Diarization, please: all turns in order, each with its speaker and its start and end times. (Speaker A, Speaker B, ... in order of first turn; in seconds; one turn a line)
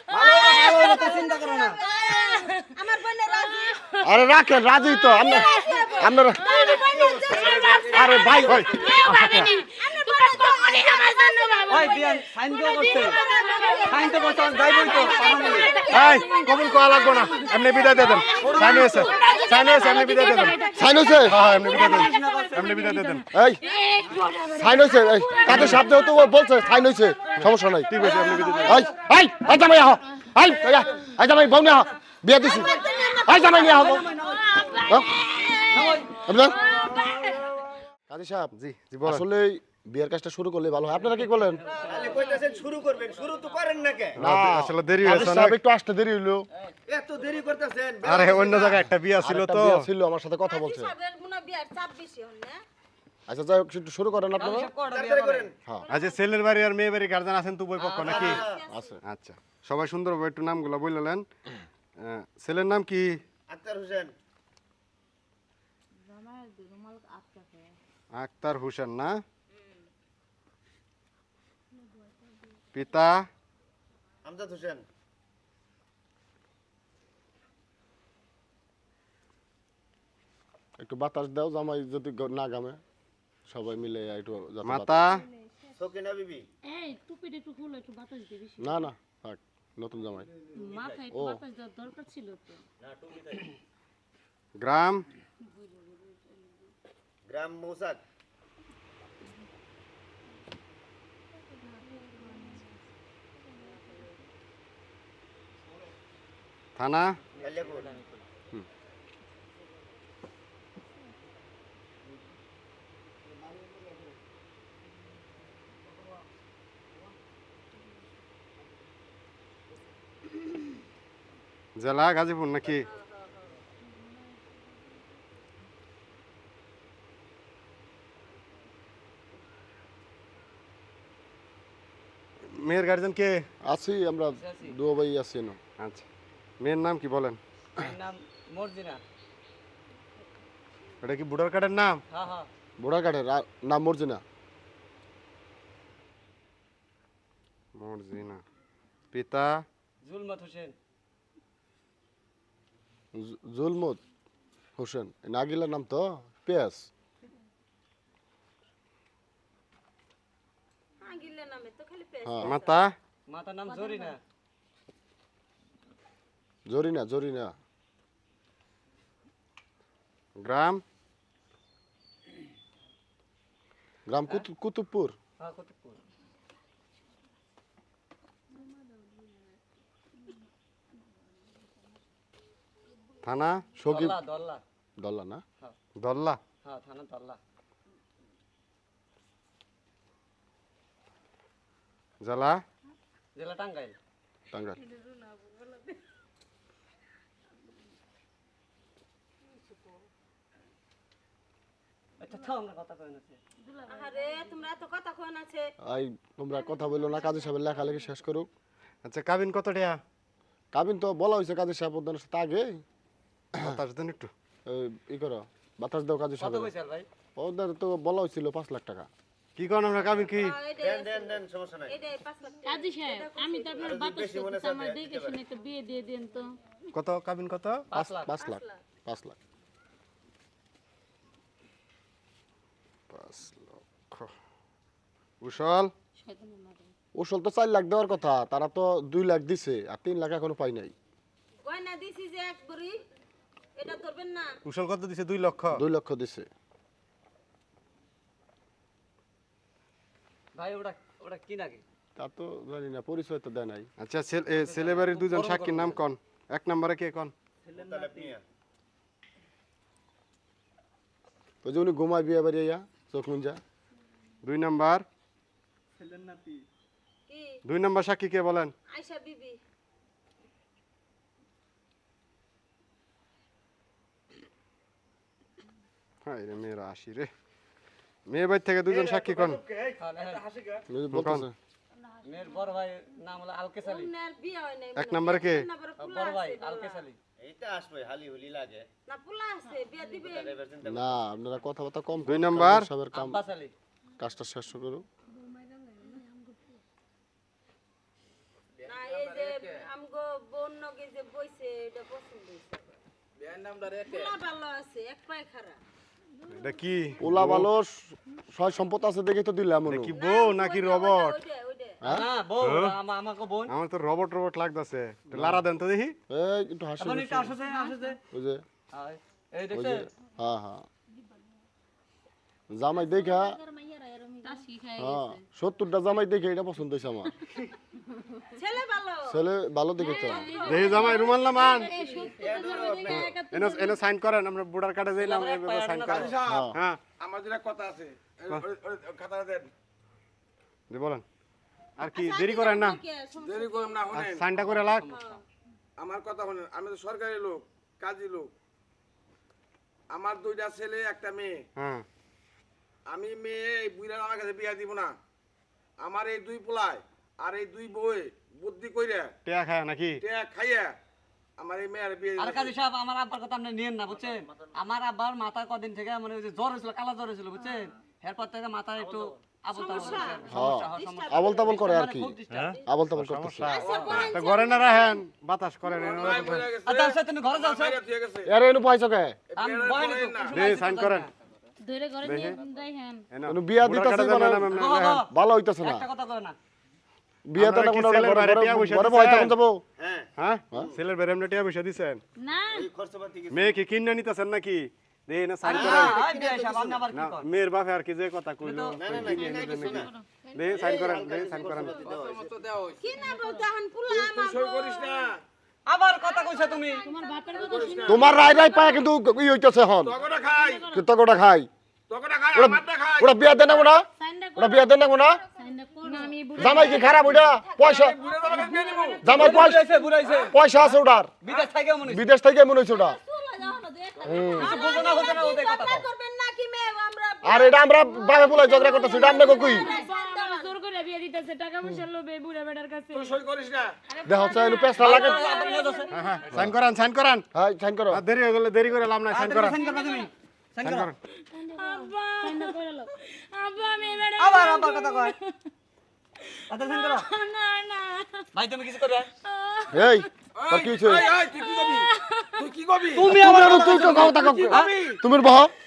Speaker A: 0.1-1.8
Speaker B: 0.8-1.2
Speaker B: 1.8-3.9
Speaker C: 4.0-6.5
Speaker D: 5.2-9.5
Speaker B: 5.3-5.8
Speaker B: 6.5-7.9
Speaker E: 6.6-8.1
Speaker C: 7.9-8.7
Speaker F: 8.5-9.5
Speaker G: 8.8-12.1
Speaker B: 9.0-12.0
Speaker D: 10.4-10.8
Speaker A: 11.7-13.2
Speaker B: 12.7-15.9
Speaker G: 13.2-14.0
Speaker A: 13.9-15.7
Speaker G: 15.6-21.3
Speaker F: 15.9-20.6
Speaker D: 16.9-20.5
Speaker A: 18.3-19.1
Speaker C: 20.8-21.4
Speaker F: 21.1-23.3
Speaker A: 21.4-23.1
Speaker G: 22.7-26.3
Speaker C: 23.3-23.6
Speaker C: 24.5-34.1
Speaker F: 25.5-25.9
Speaker F: 27.9-28.8
Speaker G: 28.1-28.6
Speaker A: 28.2-28.9
Speaker D: 32.4-34.0
Speaker A: 32.6-34.8
Speaker B: 32.8-33.0
Speaker G: 34.5-36.0
Speaker C: 34.9-35.1
Speaker A: 35.7-36.2
Speaker C: 36.3-36.6
Speaker G: 36.5-37.4
Speaker C: 38.1-38.5
Speaker F: 38.5-39.3
Speaker C: 39.0-41.6
Speaker A: 41.5-42.7
Speaker D: 41.7-44.2
Speaker B: 42.2-42.5
Speaker C: 44.2-46.5
Speaker F: 44.2-45.6
Speaker D: 46.9-48.8
Speaker F: 48.0-49.9
Speaker C: 49.2-50.9
Speaker D: 50.5-50.9
Speaker B: 50.7-52.5
Speaker D: 51.9-52.6
Speaker C: 53.3-54.7
Speaker A: 54.4-55.5
Speaker D: 54.9-56.0
Speaker B: 55.8-56.3
Speaker F: 55.9-58.4
Speaker A: 57.8-58.4
Speaker D: 58.1-58.9
Speaker B: 58.2-58.8
Speaker C: 58.7-59.0
Speaker F: 59.0-61.3
Speaker F: 62.0-63.2
Speaker D: 63.5-64.1
Speaker G: 66.1-67.8
Speaker F: 68.1-69.2
Speaker F: 72.7-73.3
Speaker D: 74.2-74.9
Speaker C: 80.8-82.8
Speaker C: 83.5-85.1
Speaker F: 84.6-85.3
Speaker D: 85.7-86.5
Speaker G: 86.7-88.9
Speaker C: 88.6-90.3
Speaker G: 90.5-92.6
Speaker D: 90.6-91.0
Speaker C: 91.1-91.4
Speaker D: 92.8-93.5
Speaker F: 94.6-95.1
Speaker G: 95.5-96.0
Speaker D: 97.3-98.0
Speaker G: 101.9-102.7
Speaker F: 106.8-107.2
Speaker A: 107.4-108.2
Speaker D: 107.4-107.9
Speaker F: 121.8-122.9
Speaker F: 132.5-133.3
Speaker C: 133.7-135.6
Speaker A: 134.4-134.7
Speaker F: 135.8-136.1
Speaker F: 136.6-137.4
Speaker A: 137.8-139.0
Speaker F: 141.0-142.0
Speaker A: 142.1-142.5
Speaker C: 142.8-144.2
Speaker F: 147.8-148.4
Speaker F: 149.1-149.6
Speaker A: 150.0-150.8
Speaker C: 153.1-154.0
Speaker C: 154.8-156.9
Speaker B: 161.0-162.5
Speaker D: 161.5-162.7
Speaker C: 162.3-162.6
Speaker F: 162.4-162.9
Speaker A: 163.3-164.2
Speaker G: 163.7-164.1
Speaker C: 166.7-167.5
Speaker F: 170.4-170.8
Speaker C: 174.1-175.2
Speaker A: 175.4-176.0
Speaker F: 183.2-183.7
Speaker C: 183.8-184.2
Speaker A: 183.9-184.6
Speaker C: 185.0-185.4
Speaker F: 186.0-186.4
Speaker A: 186.6-187.4
Speaker F: 192.2-192.6
Speaker A: 193.3-194.0
Speaker C: 194.5-194.8
Speaker A: 202.2-203.4
Speaker G: 203.7-204.6
Speaker B: 203.9-204.6
Speaker D: 204.8-205.7
Speaker C: 205.8-208.5
Speaker F: 209.1-210.0
Speaker C: 210.7-212.8
Speaker F: 213.6-214.3
Speaker C: 214.7-216.7
Speaker A: 216.4-217.1
Speaker C: 217.4-219.1
Speaker F: 219.6-220.6
Speaker B: 220.3-221.4
Speaker D: 220.3-222.2
Speaker B: 221.9-223.9
Speaker G: 222.6-226.5
Speaker D: 223.8-225.4
Speaker F: 226.9-228.1
Speaker A: 227.9-228.3
Speaker C: 228.2-229.4
Speaker F: 233.1-234.3
Speaker F: 235.4-235.9
Speaker G: 236.2-236.9
Speaker C: 237.2-240.9
Speaker D: 241.7-242.7
Speaker B: 241.8-243.0
Speaker D: 243.8-244.5
Speaker B: 243.8-244.4
Speaker F: 244.7-245.8
Speaker C: 245.7-246.5
Speaker A: 250.6-251.8
Speaker C: 252.2-253.9
Speaker F: 254.0-257.3
Speaker A: 254.5-256.0
Speaker D: 257.7-258.4
Speaker E: 257.8-258.3
Speaker C: 261.6-263.6
Speaker F: 264.4-265.1
Speaker F: 267.7-268.7
Speaker B: 269.0-269.6
Speaker D: 269.1-269.5
Speaker F: 276.2-277.3
Speaker F: 278.3-279.6
Speaker E: 278.9-280.8
Speaker A: 280.0-280.4
Speaker C: 280.9-281.5
Speaker F: 281.1-281.5
Speaker A: 282.2-284.1
Speaker B: 283.9-287.0
Speaker D: 284.7-285.6
Speaker F: 285.0-285.7
Speaker A: 286.0-287.2
Speaker D: 287.4-288.9
Speaker B: 289.1-290.6
Speaker D: 290.1-291.1
Speaker C: 290.8-293.4
Speaker F: 292.3-292.9
Speaker A: 293.1-293.7
Speaker C: 294.2-295.0
Speaker G: 295.6-296.2
Speaker E: 298.9-299.8
Speaker B: 298.9-302.8
Speaker D: 299.4-299.8
Speaker D: 302.5-303.0
Speaker E: 303.4-304.3
Speaker B: 304.1-305.8
Speaker F: 306.5-307.7
Speaker C: 307.2-310.1
Speaker F: 309.9-311.4
Speaker D: 310.2-311.9
Speaker B: 310.2-312.0
Speaker A: 312.1-313.7
Speaker F: 312.6-312.9
Speaker F: 313.7-316.1
Speaker C: 315.3-315.6
Speaker C: 316.3-317.6
Speaker A: 317.0-318.2
Speaker C: 318.3-318.6
Speaker A: 318.9-320.1
Speaker C: 319.7-320.9
Speaker C: 322.7-323.6
Speaker G: 323.0-325.4
Speaker C: 325.0-327.3
Speaker B: 328.6-329.1
Speaker D: 328.8-329.1
Speaker C: 329.3-330.6
Speaker G: 330.0-333.3
Speaker D: 330.0-333.9
Speaker B: 330.3-330.7
Speaker F: 330.6-332.0
Speaker B: 331.8-333.5
Speaker F: 333.1-337.0
Speaker A: 335.2-336.4
Speaker E: 336.0-339.7
Speaker C: 336.4-336.8
Speaker F: 340.9-341.2
Speaker F: 342.0-343.0
Speaker D: 342.1-342.9
Speaker B: 342.3-344.1
Speaker E: 343.4-344.5
Speaker F: 344.1-345.1
Speaker A: 344.5-345.4
Speaker B: 345.1-345.4
Speaker E: 346.0-348.5
Speaker E: 350.1-351.6
Speaker F: 351.8-352.1
Speaker E: 353.1-355.1
Speaker E: 356.0-359.3
Speaker F: 359.4-360.2
Speaker E: 360.2-361.0
Speaker E: 361.6-362.7
Speaker A: 362.4-372.8
Speaker B: 369.7-371.5
Speaker D: 369.9-371.5
Speaker C: 370.5-373.8
Speaker F: 372.5-376.7
Speaker B: 373.7-375.1
Speaker E: 373.7-374.3
Speaker A: 373.8-374.4
Speaker D: 373.8-375.1
Speaker E: 375.9-378.5
Speaker A: 376.8-378.0
Speaker C: 378.4-379.4
Speaker E: 379.5-380.6
Speaker A: 379.6-381.3
Speaker F: 380.5-381.3
Speaker G: 381.8-383.2
Speaker F: 382.2-382.6
Speaker F: 383.3-385.2
Speaker C: 383.5-386.1
Speaker A: 384.7-385.3
Speaker A: 385.8-386.6
Speaker C: 387.5-389.8
Speaker F: 387.6-389.5
Speaker D: 390.0-391.0
Speaker F: 390.4-392.2
Speaker G: 392.4-392.9
Speaker D: 392.7-393.8
Speaker F: 393.5-396.2
Speaker A: 395.6-397.5
Speaker D: 395.7-397.0
Speaker F: 397.1-402.0
Speaker A: 398.6-399.0
Speaker D: 399.0-400.1
Speaker G: 399.9-400.2
Speaker D: 400.7-402.5
Speaker E: 401.6-403.1
Speaker B: 403.1-403.9
Speaker G: 403.2-403.6
Speaker D: 403.9-405.1
Speaker E: 404.1-405.4
Speaker B: 404.5-405.2
Speaker A: 405.9-407.1
Speaker B: 406.4-407.4
Speaker G: 407.0-409.1
Speaker D: 407.4-407.9
Speaker E: 407.5-408.4
Speaker C: 408.0-410.2
Speaker E: 410.0-410.9
Speaker G: 410.6-411.0
Speaker C: 410.8-411.7
Speaker E: 412.1-413.4
Speaker C: 412.5-415.4
Speaker G: 414.2-414.8
Speaker G: 415.6-417.3
Speaker D: 416.4-419.2
Speaker C: 416.6-418.2
Speaker B: 417.5-419.2
Speaker E: 418.0-419.2
Speaker G: 418.6-418.9
Speaker C: 419.2-419.8
Speaker A: 419.3-420.6
Speaker E: 420.2-420.5
Speaker C: 420.5-421.3
Speaker A: 421.4-422.2
Speaker C: 422.1-423.2
Speaker B: 423.1-427.5
Speaker D: 424.2-425.1
Speaker C: 424.2-424.8
Speaker A: 424.6-426.1
Speaker D: 426.4-427.7
Speaker C: 427.4-429.9
Speaker D: 428.3-429.9
Speaker G: 428.7-433.4
Speaker B: 429.1-430.7
Speaker E: 433.1-434.0
Speaker G: 434.1-436.1
Speaker C: 434.2-435.4
Speaker A: 435.0-436.1
Speaker F: 436.1-437.4
Speaker C: 437.5-438.2
Speaker F: 438.1-439.8
Speaker A: 439.3-441.1
Speaker G: 439.9-440.2
Speaker F: 440.8-441.2
Speaker G: 441.5-445.5
Speaker D: 442.0-442.7
Speaker A: 444.4-445.4
Speaker A: 446.7-447.3
Speaker G: 447.1-448.5
Speaker A: 448.6-449.3
Speaker G: 449.4-450.0
Speaker C: 449.9-451.3
Speaker E: 450.6-453.3
Speaker G: 452.0-452.6
Speaker A: 453.1-454.9
Speaker C: 453.3-455.7
Speaker E: 454.6-455.2